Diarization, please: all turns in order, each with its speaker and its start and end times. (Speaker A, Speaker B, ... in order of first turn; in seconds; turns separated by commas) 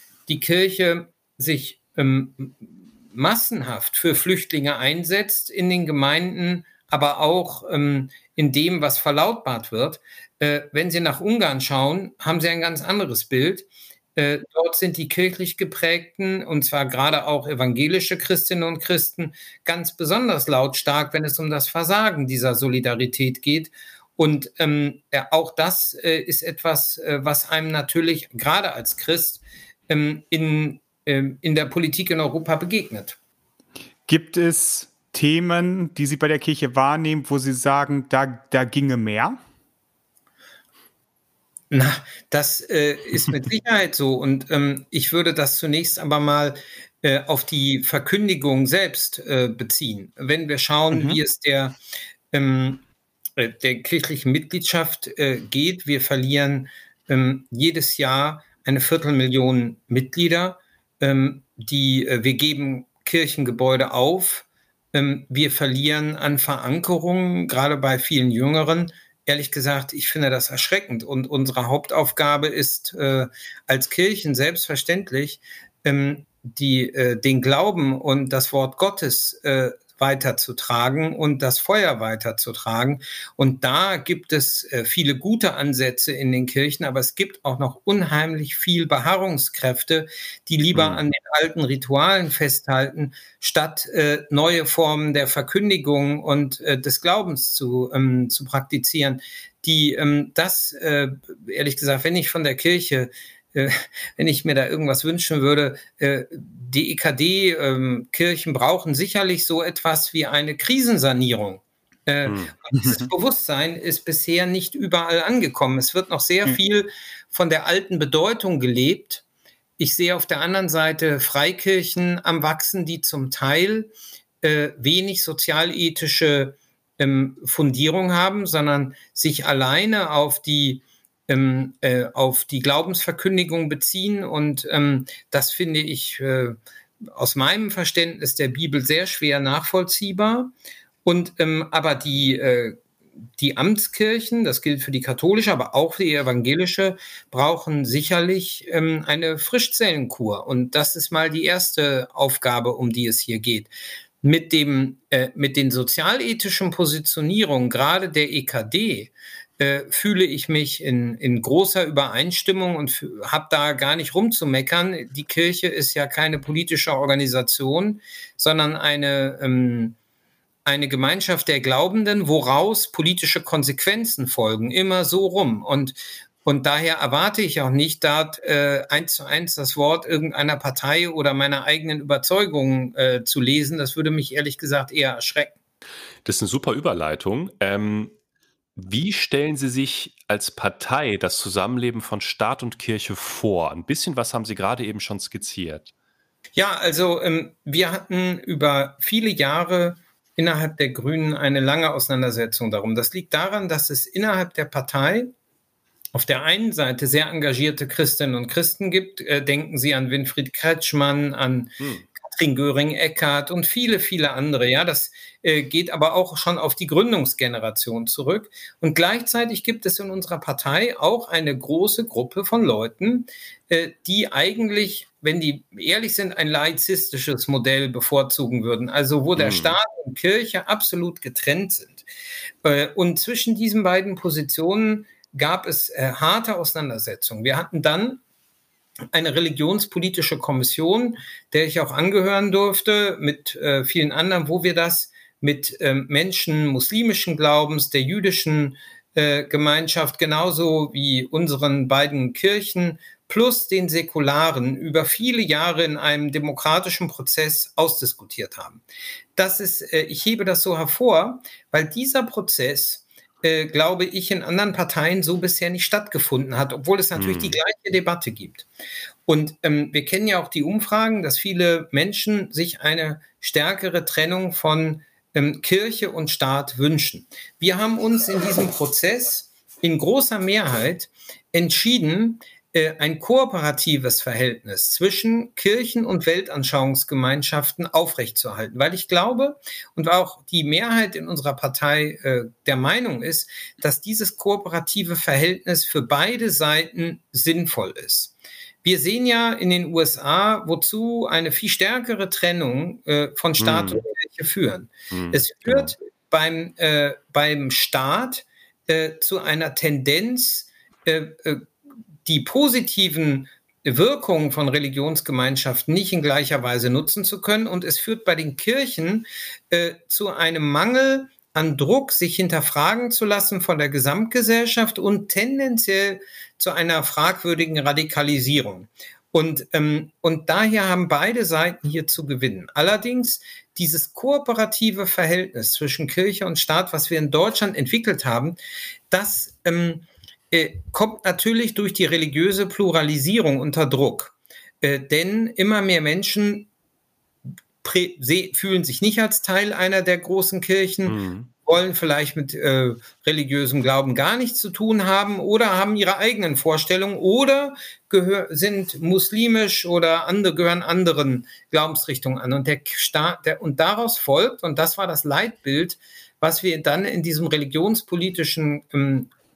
Speaker A: 0.3-33.2, Speaker B: 34.1-39.4, Speaker A: 41.7-51.8, Speaker A: 52.3-52.8, Speaker A: 53.4-119.2, Speaker C: 90.7-91.0, Speaker C: 112.2-112.5, Speaker A: 119.8-123.9, Speaker A: 124.4-136.6, Speaker A: 137.1-140.5, Speaker A: 141.0-142.8, Speaker A: 143.4-153.7, Speaker A: 154.2-169.9, Speaker A: 170.7-185.5, Speaker C: 186.2-188.1, Speaker C: 188.8-195.9, Speaker A: 196.6-205.3, Speaker A: 206.1-232.1, Speaker C: 211.8-212.1, Speaker C: 229.3-229.8, Speaker A: 232.6-238.2, Speaker A: 239.1-258.8, Speaker A: 259.4-268.7, Speaker C: 267.1-267.6, Speaker A: 269.3-311.7, Speaker C: 303.6-304.0, Speaker C: 305.1-305.9, Speaker A: 312.2-338.6, Speaker A: 339.1-346.7, Speaker A: 347.8-369.3, Speaker C: 351.1-351.5